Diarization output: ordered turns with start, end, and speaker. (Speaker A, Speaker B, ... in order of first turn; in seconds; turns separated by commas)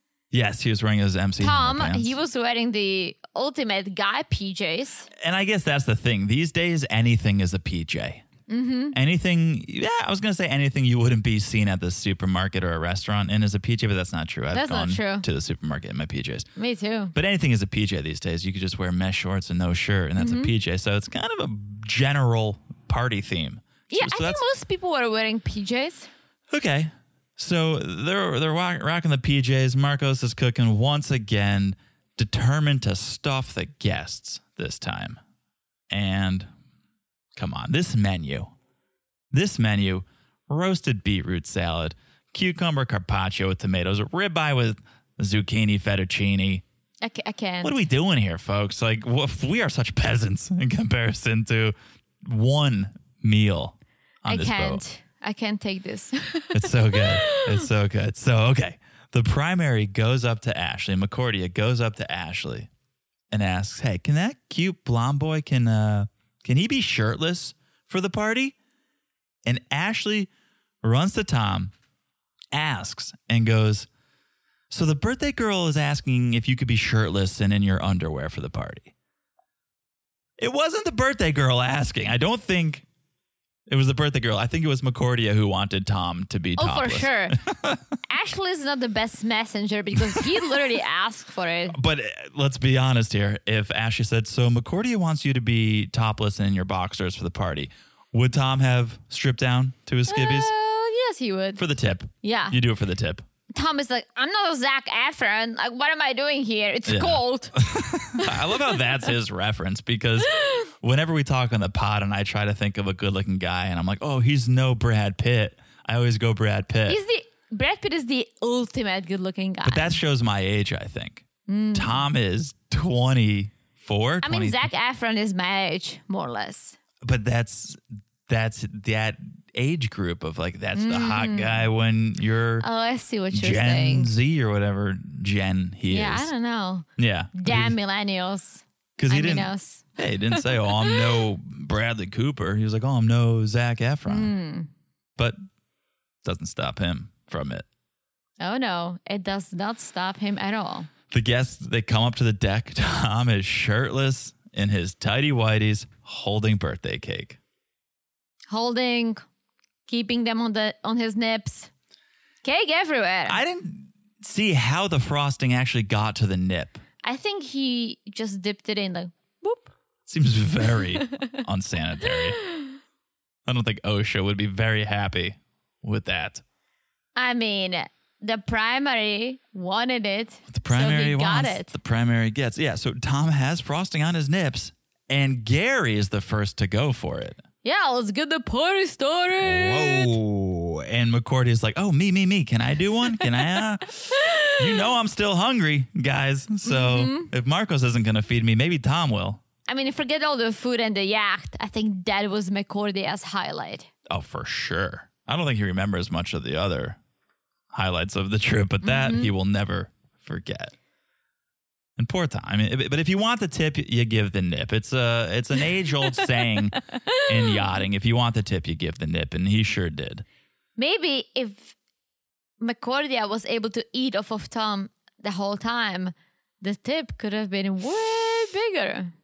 Speaker A: 0.3-2.1, Speaker B: 1.4-5.1, Speaker A: 5.2-8.2, Speaker B: 8.5-8.9, Speaker A: 8.9-16.5, Speaker B: 14.5-15.2, Speaker B: 16.6-17.1, Speaker A: 17.1-24.4, Speaker B: 20.2-20.5, Speaker B: 23.9-26.1, Speaker A: 26.5-35.2, Speaker A: 35.9-36.5, Speaker A: 37.4-38.5, Speaker A: 39.3-46.6, Speaker B: 47.0-47.7, Speaker A: 47.6-54.8, Speaker B: 54.3-57.6, Speaker A: 56.5-62.7, Speaker A: 63.3-68.5, Speaker A: 69.4-70.3, Speaker A: 70.8-71.7, Speaker A: 72.5-73.9, Speaker A: 74.7-78.9, Speaker A: 80.4-82.8, Speaker A: 83.7-87.8, Speaker B: 86.6-87.4, Speaker B: 88.1-91.8, Speaker A: 90.0-90.5, Speaker A: 91.7-100.5, Speaker B: 100.1-101.6, Speaker A: 101.6-103.2, Speaker B: 102.2-102.6, Speaker B: 103.5-107.6, Speaker A: 106.8-117.0, Speaker B: 108.1-108.7, Speaker B: 116.8-120.0, Speaker A: 119.6-124.7, Speaker B: 121.5-122.0, Speaker B: 124.2-126.8, Speaker A: 127.0-132.7, Speaker B: 130.7-131.7, Speaker B: 132.6-134.1, Speaker A: 133.3-136.3, Speaker B: 135.9-141.0, Speaker A: 137.0-137.8, Speaker A: 139.0-144.3, Speaker B: 144.1-144.7, Speaker A: 146.2-147.7, Speaker B: 148.4-150.9, Speaker A: 151.1-157.4, Speaker B: 158.5-159.2, Speaker B: 159.9-161.7, Speaker B: 162.4-163.4, Speaker A: 163.2-166.8, Speaker B: 167.0-169.7, Speaker A: 170.1-172.4, Speaker B: 171.0-171.4, Speaker B: 172.4-172.7, Speaker A: 173.4-176.4, Speaker B: 177.2-181.7, Speaker A: 180.5-187.4, Speaker B: 187.6-190.1, Speaker A: 189.4-199.4, Speaker B: 193.2-193.6, Speaker B: 194.1-194.9, Speaker B: 196.6-197.3, Speaker B: 199.7-203.9, Speaker A: 204.1-207.0, Speaker A: 207.7-210.7, Speaker B: 208.8-209.3, Speaker A: 212.0-220.2, Speaker B: 217.1-217.5, Speaker B: 220.8-221.7, Speaker B: 222.6-229.1